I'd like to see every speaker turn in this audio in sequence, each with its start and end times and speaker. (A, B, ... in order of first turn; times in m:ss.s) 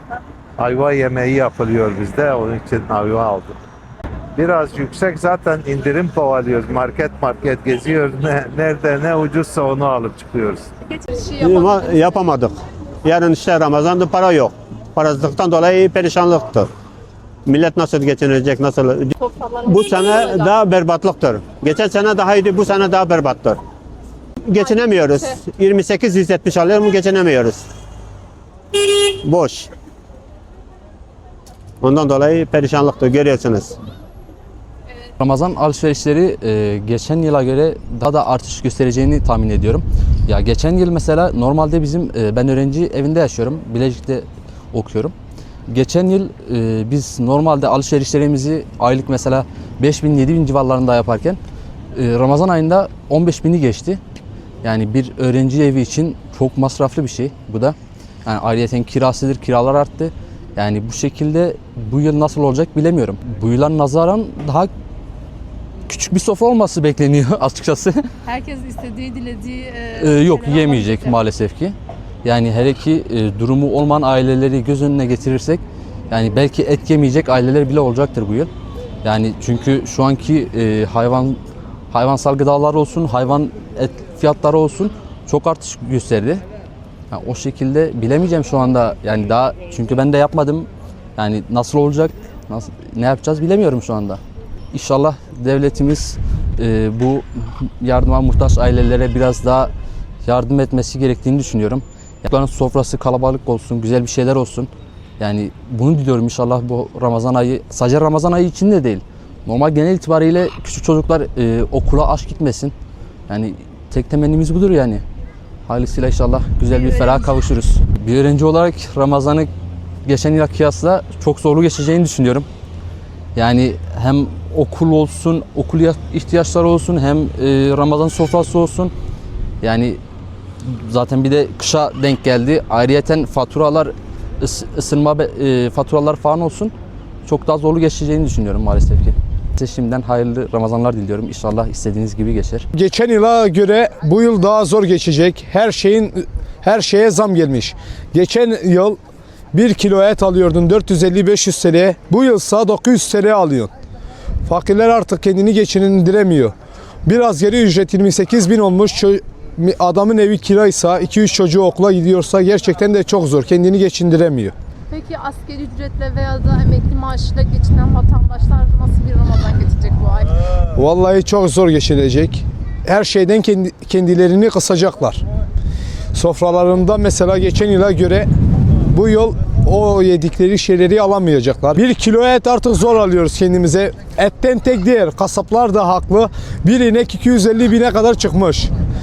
0:00.6-0:03.6 A
0:04.4-0:10.7 A
0:11.0-0:12.2 B
0:11.4-0:16.7 C
0:17.4-0:19.1 C
0:19.2-0:20.4 B
0:19.6-0:23.6 C
0:24.4-0:27.7 C
0:29.2-0:29.7 C
0:31.8-0:33.8 C
0:35.2-0:45.1 D
0:45.7-0:51.4 D
0:51.9-0:54.0 D
0:54.6-1:04.7 D
1:05.9-1:08.0 D
1:08.2-1:11.1 B
1:10.0-1:18.5 D
1:19.0-1:21.4 D
1:21.9-1:26.4 D
1:27.1-1:34.2 D
1:34.7-1:39.7 D
1:40.2-1:52.7 D
1:53.3-1:55.0 D
1:55.7-1:59.5 D
2:00.0-2:02.5 D
2:03.3-2:08.9 D
2:09.6-2:10.0 D
2:10.6-2:16.7 D
2:17.2-2:22.6 D
2:22.7-2:29.0 E
2:29.5-2:33.7 E
2:34.5-2:36.5 E
2:37.0-2:44.5 E
2:44.9-2:50.3 B
2:50.7-2:55.2 E
2:56.1-2:58.3 E
2:58.9-3:08.7 E